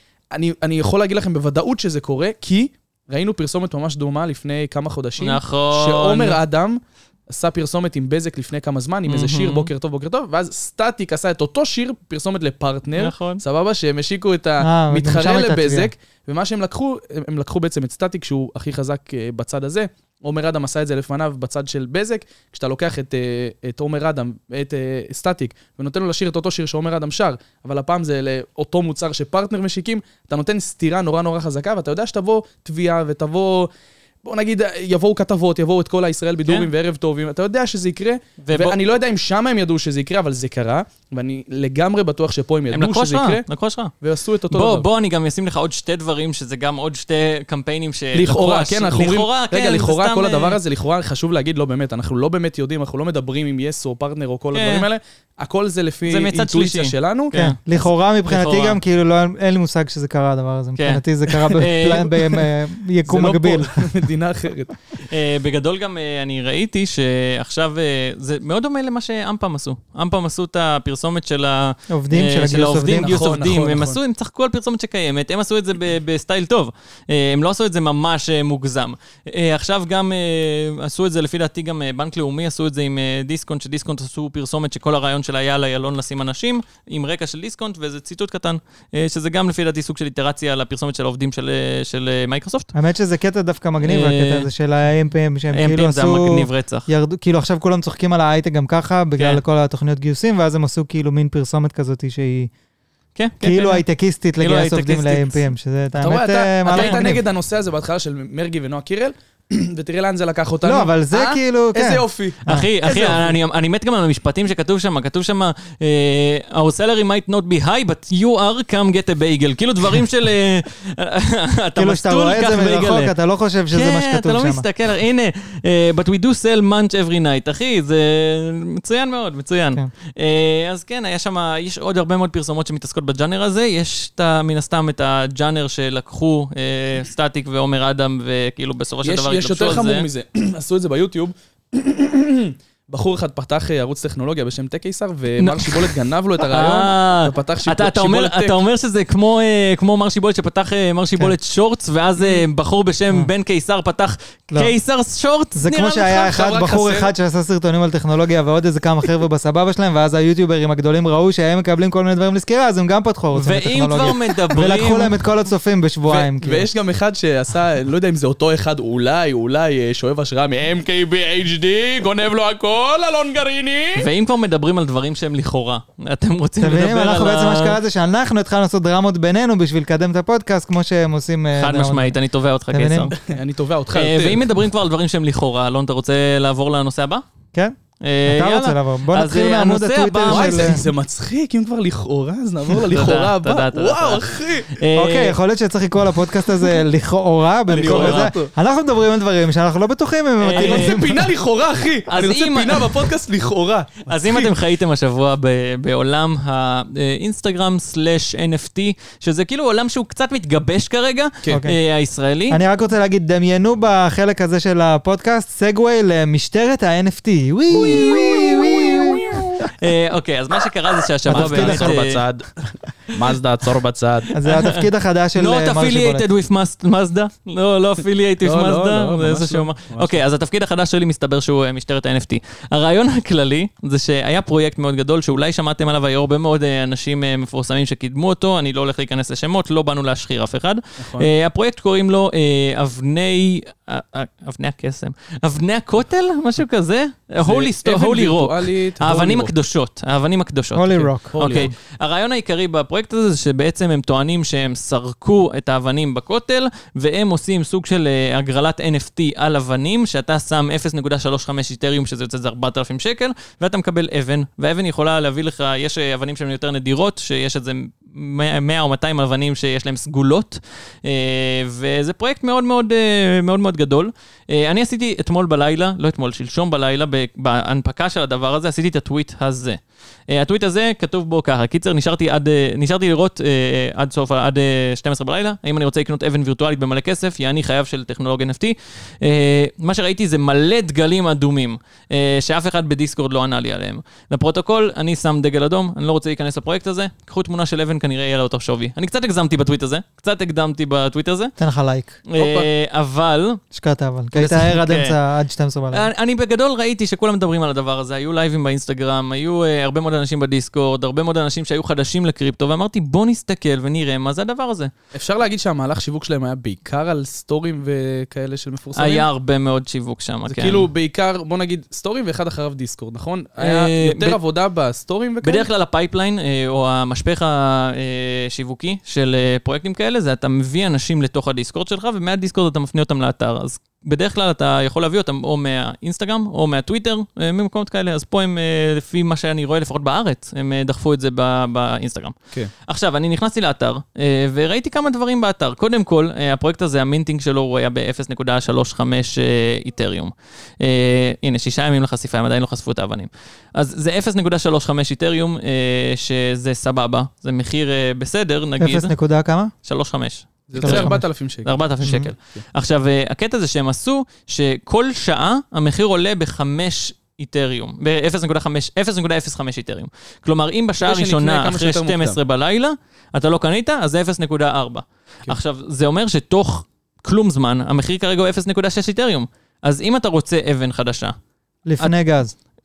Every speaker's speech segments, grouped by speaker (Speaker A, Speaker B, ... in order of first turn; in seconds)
Speaker A: 0.3-33.7, 34.2-43.5, 44.0-44.9, 48.1-57.4, 63.1-64.8, 72.9-74.0, 106.0-113.3, 139.0-148.6, 156.2-157.1, 166.1-174.1, 183.2-184.5, 190.3-194.8, 197.7-198.5, 200.6-204.5, 221.3-224.3, 228.4-230.2, 241.0-241.3, 247.4-249.5, 251.3-251.7, 302.4-302.7, 315.1-319.3, 320.5-325.7, 360.7-361.7, 371.0-372.4
Speaker B: 5.2-6.4, 9.1-9.7, 13.0-13.4, 38.4-38.8, 42.7-43.9, 44.5-50.6, 54.5-54.9, 56.1-57.6, 58.3-58.8, 60.8-62.1, 65.0-92.7, 93.8-94.5, 95.5-96.9, 103.2-103.8, 104.4-105.4, 106.7-107.1, 112.5-123.1, 123.7-140.1, 145.4-156.3, 163.3-165.2, 174.0-177.8, 181.6-183.2, 183.9-187.2, 188.0-190.8, 192.8-195.4, 197.7-198.3, 200.4-201.0, 202.1-202.9, 204.1-212.6, 217.7-222.2, 224.4-224.8, 225.4-301.5, 302.3-303.6, 304.3-305.2, 305.9-314.9, 319.0-320.9, 323.6-324.4, 325.4-359.1, 359.8-361.1, 361.6-381.4
Speaker C: 14.6-15.9, 57.4-63.8, 71.9-73.2, 92.7-102.5, 103.4-107.2, 110.6-112.7, 121.8-124.7, 155.6-166.7, 176.6-182.2, 182.7-183.1, 188.3-190.8, 194.9-201.3, 211.5-211.8, 212.5-219.6, 221.3-222.0, 224.3-226.2, 250.8-251.4, 301.6-302.2, 303.7-306.1, 358.8-359.7, 360.8-361.2, 362.0-362.3, 381.9-382.5